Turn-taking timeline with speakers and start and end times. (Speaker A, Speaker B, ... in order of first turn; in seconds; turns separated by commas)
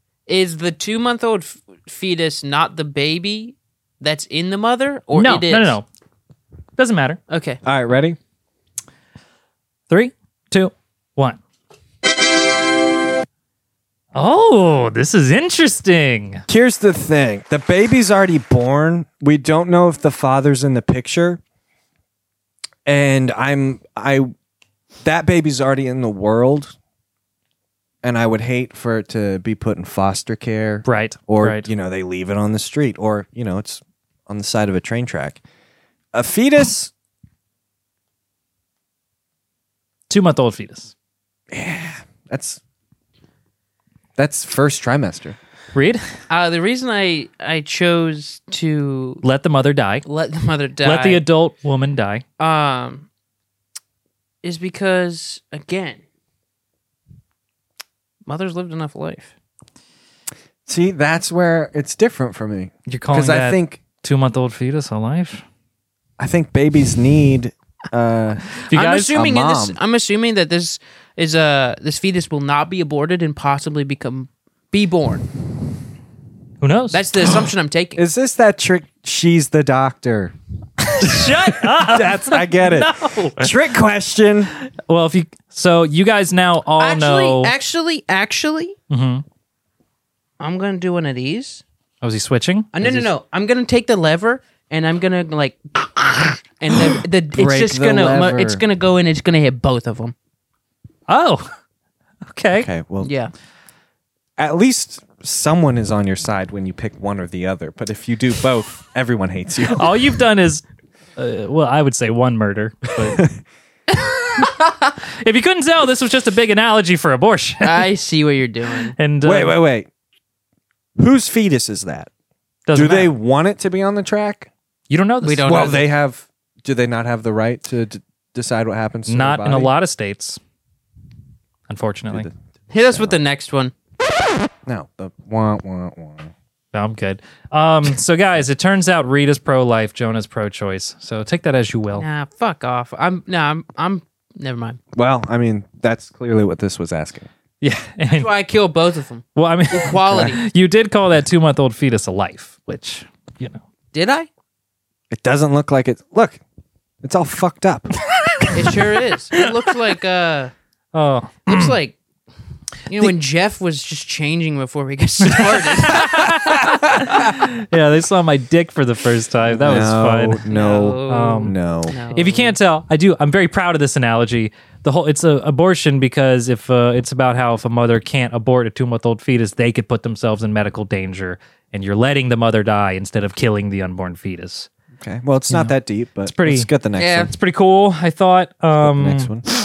Speaker A: 0.3-5.8, Speaker B: 5.1-5.8, Speaker B: 6.8-7.2, Speaker A: 7.3-7.6, Speaker C: 7.6-8.2, Speaker B: 9.9-11.4, Speaker B: 14.1-16.4, Speaker C: 16.5-21.4, Speaker C: 22.9-24.3, Speaker C: 25.0-26.7, Speaker C: 28.0-35.4, Speaker B: 30.9-31.7, Speaker C: 36.1-36.9, Speaker B: 40.1-40.9, Speaker C: 41.5-42.6, Speaker C: 44.2-45.4, Speaker B: 45.7-46.0, Speaker A: 46.3-49.2, Speaker B: 49.2-50.0, Speaker A: 50.0-51.2, Speaker B: 50.8-52.2, Speaker A: 52.4-53.0, Speaker A: 54.4-56.0, Speaker A: 58.2-59.3, Speaker C: 60.7-63.8, Speaker B: 62.9-65.4, Speaker C: 66.2-68.5, Speaker B: 68.7-69.2, Speaker A: 68.7-75.3, Speaker C: 69.1-69.8, Speaker B: 76.6-77.5, Speaker A: 76.9-78.0, Speaker C: 78.0-80.3, Speaker B: 80.9-83.5, Speaker C: 81.0-84.5, Speaker B: 84.8-87.5, Speaker A: 86.8-88.8, Speaker B: 88.9-89.2, Speaker A: 90.4-91.6, Speaker B: 92.0-92.7, Speaker A: 92.7-100.1, Speaker C: 92.8-93.1, Speaker C: 97.3-98.6, Speaker B: 101.1-101.5, Speaker B: 102.2-102.7, Speaker C: 102.5-103.1, Speaker A: 103.0-103.3, Speaker C: 104.4-110.0, Speaker B: 109.7-110.6, Speaker B: 111.2-113.2, Speaker A: 113.9-114.9, Speaker B: 115.2-117.9, Speaker A: 117.6-118.9, Speaker B: 119.0-119.5, Speaker C: 119.2-119.9, Speaker C: 121.0-122.1, Speaker B: 122.7-123.1, Speaker C: 122.7-124.5, Speaker B: 124.9-125.8, Speaker A: 125.2-125.8, Speaker C: 125.4-129.7, Speaker B: 129.1-130.4, Speaker B: 131.7-132.3, Speaker C: 132.1-133.2, Speaker A: 132.7-133.7, Speaker C: 134.7-136.3, Speaker B: 136.7-142.1, Speaker A: 141.9-144.8, Speaker C: 144.9-147.3, Speaker B: 147.6-148.3, Speaker A: 148.1-150.4, Speaker B: 149.3-153.6, Speaker A: 153.9-154.3, Speaker C: 155.1-156.4, Speaker C: 157.0-157.9, Speaker A: 158.5-160.5, Speaker B: 160.9-161.8, Speaker A: 161.4-161.9, Speaker A: 162.9-166.3, Speaker B: 165.3-170.5, Speaker C: 166.4-167.1, Speaker C: 169.5-171.9, Speaker A: 170.5-172.6, Speaker B: 171.1-171.5, Speaker B: 172.1-184.7, Speaker C: 185.0-187.3, Speaker B: 185.5-186.7, Speaker A: 187.0-187.3, Speaker B: 187.3-189.3, Speaker C: 188.8-189.5